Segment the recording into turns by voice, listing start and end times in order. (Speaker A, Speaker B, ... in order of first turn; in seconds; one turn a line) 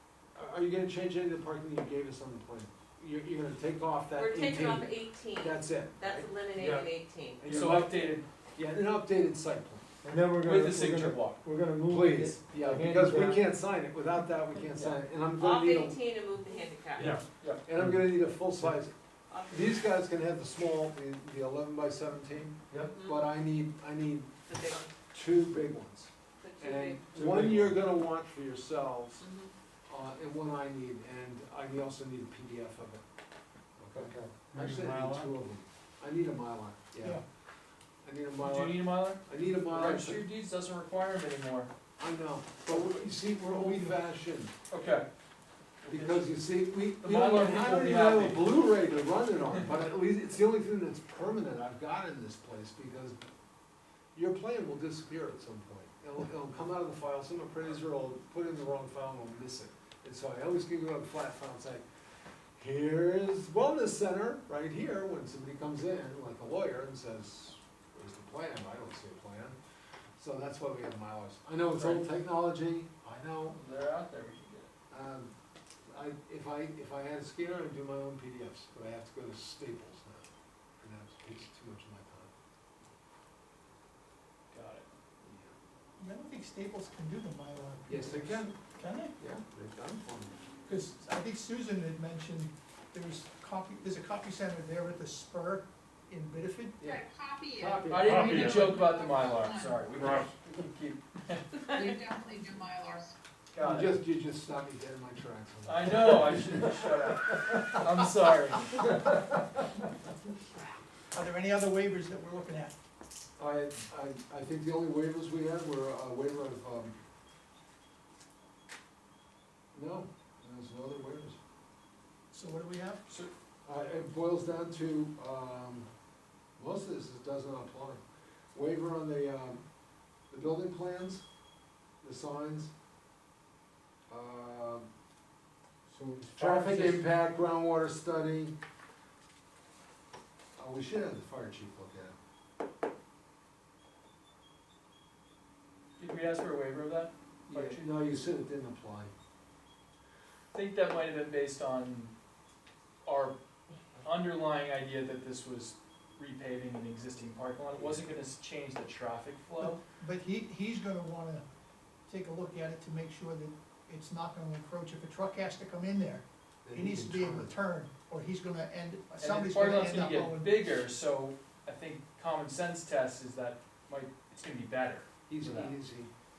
Speaker A: 0.3-6.3
Speaker B: 4.1-7.6
Speaker C: 6.6-6.8
Speaker A: 7.4-9.8
Speaker D: 7.5-8.2
Speaker C: 10.0-13.4
Speaker D: 10.4-11.4
Speaker A: 11.8-16.0
Speaker B: 15.3-17.1
Speaker C: 17.0-17.2
Speaker D: 17.2-17.6
Speaker A: 17.6-18.9
Speaker B: 19.3-19.9
Speaker A: 19.5-24.3
Speaker B: 22.8-23.2
Speaker B: 24.5-24.9
Speaker A: 25.1-29.2
Speaker B: 26.4-27.0
Speaker C: 27.1-27.8
Speaker B: 29.2-29.5
Speaker A: 29.9-33.0
Speaker A: 33.8-37.2
Speaker C: 33.9-35.3
Speaker A: 38.0-40.2
Speaker D: 38.4-41.7
Speaker A: 42.0-44.5
Speaker E: 43.5-43.9
Speaker D: 44.7-45.1
Speaker D: 45.8-46.3
Speaker A: 45.9-53.2
Speaker D: 47.0-48.5
Speaker A: 54.1-61.8
Speaker A: 62.5-69.6
Speaker A: 70.2-73.6
Speaker D: 71.7-72.0
Speaker D: 73.5-74.7
Speaker A: 74.9-75.3
Speaker A: 75.8-80.3
Speaker A: 80.8-82.3
Speaker D: 84.5-84.9
Speaker A: 85.2-85.5
Speaker E: 86.0-89.1
Speaker A: 87.8-88.5
Speaker A: 89.2-90.3
Speaker E: 90.7-96.8
Speaker A: 96.8-97.0
Speaker F: 96.8-99.9
Speaker A: 97.5-98.4
Speaker D: 97.9-101.9
Speaker C: 97.9-98.7
Speaker C: 100.0-100.2
Speaker F: 101.7-103.2
Speaker D: 103.5-103.9
Speaker A: 103.6-106.7
Speaker D: 105.6-109.1
Speaker E: 111.1-112.7
Speaker A: 113.4-116.9
Speaker A: 119.7-121.4
Speaker E: 122.3-123.0
Speaker A: 123.6-125.9
Speaker A: 126.6-128.0
Speaker A: 128.5-129.6
Speaker A: 130.3-131.2
Speaker A: 132.0-132.7
Speaker A: 134.1-134.9
Speaker C: 135.9-137.0
Speaker A: 136.4-138.6
Speaker A: 140.6-142.1
Speaker D: 146.0-147.9
Speaker A: 147.5-149.1
Speaker D: 150.5-152.1
Speaker D: 153.0-153.3
Speaker D: 154.0-159.8
Speaker A: 157.7-158.1
Speaker E: 159.6-161.4
Speaker E: 162.1-170.8
Speaker A: 166.6-167.5
Speaker D: 169.2-175.7
Speaker A: 175.3-176.1